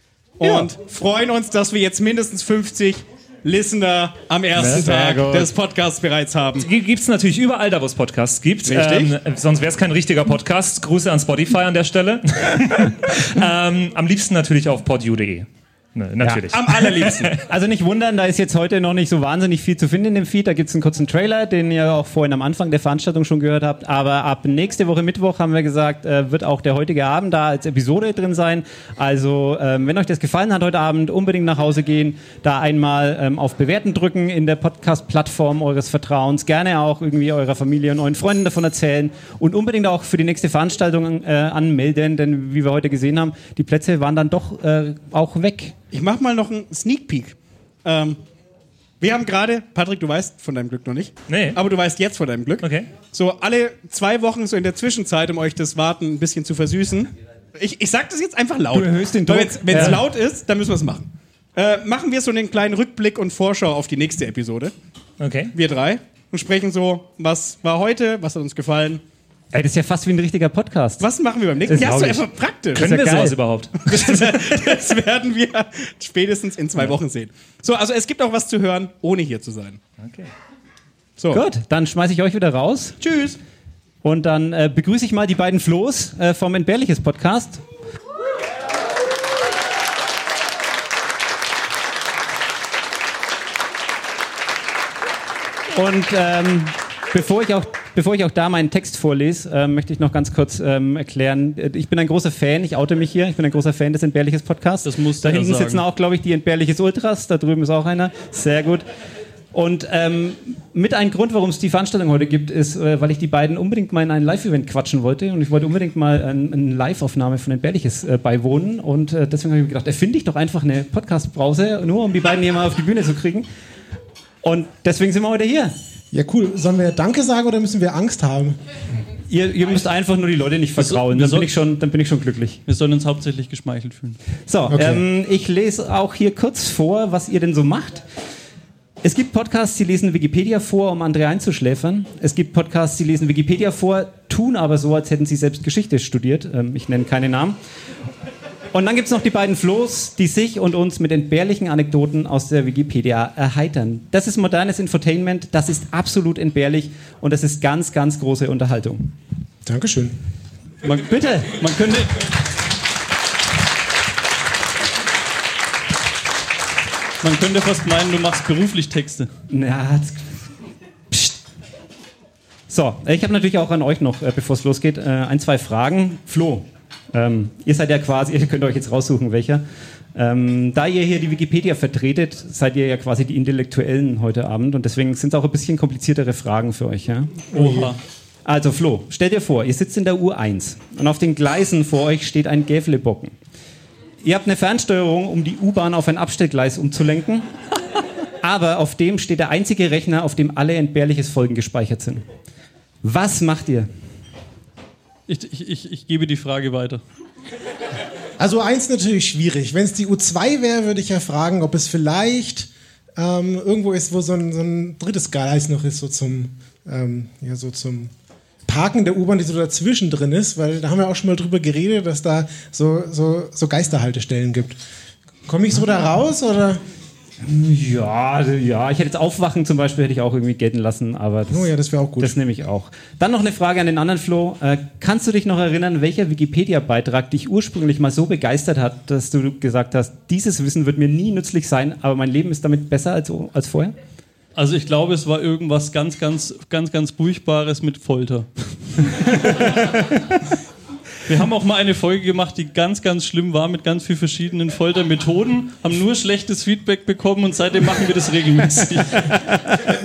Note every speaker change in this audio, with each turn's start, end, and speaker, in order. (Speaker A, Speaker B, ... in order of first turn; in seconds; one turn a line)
Speaker A: 0.4-6.7
Speaker B: 4.5-5.4
Speaker C: 4.6-5.3
Speaker C: 6.6-17.2
Speaker A: 8.7-9.1
Speaker A: 16.5-17.3
Speaker B: 17.2-45.8
Speaker A: 45.9-48.2
Speaker A: 49.0-64.7
Speaker C: 51.3-51.6
Speaker C: 52.6-52.9
Speaker B: 58.7-60.0
Speaker C: 59.7-60.0
Speaker C: 65.2-65.5
Speaker A: 65.5-69.0
Speaker B: 69.5-71.1
Speaker A: 71.0-79.8
Speaker B: 71.6-74.4
Speaker B: 81.3-83.0
Speaker A: 83.0-83.4
Speaker B: 84.0-87.6
Speaker B: 95.7-108.8
Speaker D: 104.8-105.8
Speaker B: 109.5-123.5
Speaker B: 124.4-125.7
Speaker E: 126.1-128.6
Speaker B: 129.3-132.6
Speaker D: 130.8-131.5
Speaker D: 132.7-134.2
Speaker B: 134.5-138.0
Speaker E: 134.7-135.0
Speaker B: 139.0-147.6
Speaker B: 148.7-159.1
Speaker E: 159.6-160.2
Speaker D: 160.8-162.1
Speaker B: 161.0-162.0
Speaker D: 167.2-169.3
Speaker B: 169.5-170.3
Speaker B: 171.1-171.3
Speaker B: 172.7-187.9
Speaker D: 187.5-188.0
Speaker E: 187.6-187.9
Speaker B: 188.4-193.3
Speaker B: 194.2-197.5
Speaker B: 198.4-202.2
Speaker B: 203.0-203.9
Speaker D: 205.3-207.0
Speaker E: 208.4-218.1
Speaker E: 218.7-224.8
Speaker E: 225.4-226.8
Speaker B: 227.4-243.9
Speaker E: 231.5-232.3
Speaker D: 244.5-248.5
Speaker D: 249.0-250.0
Speaker D: 251.2-259.4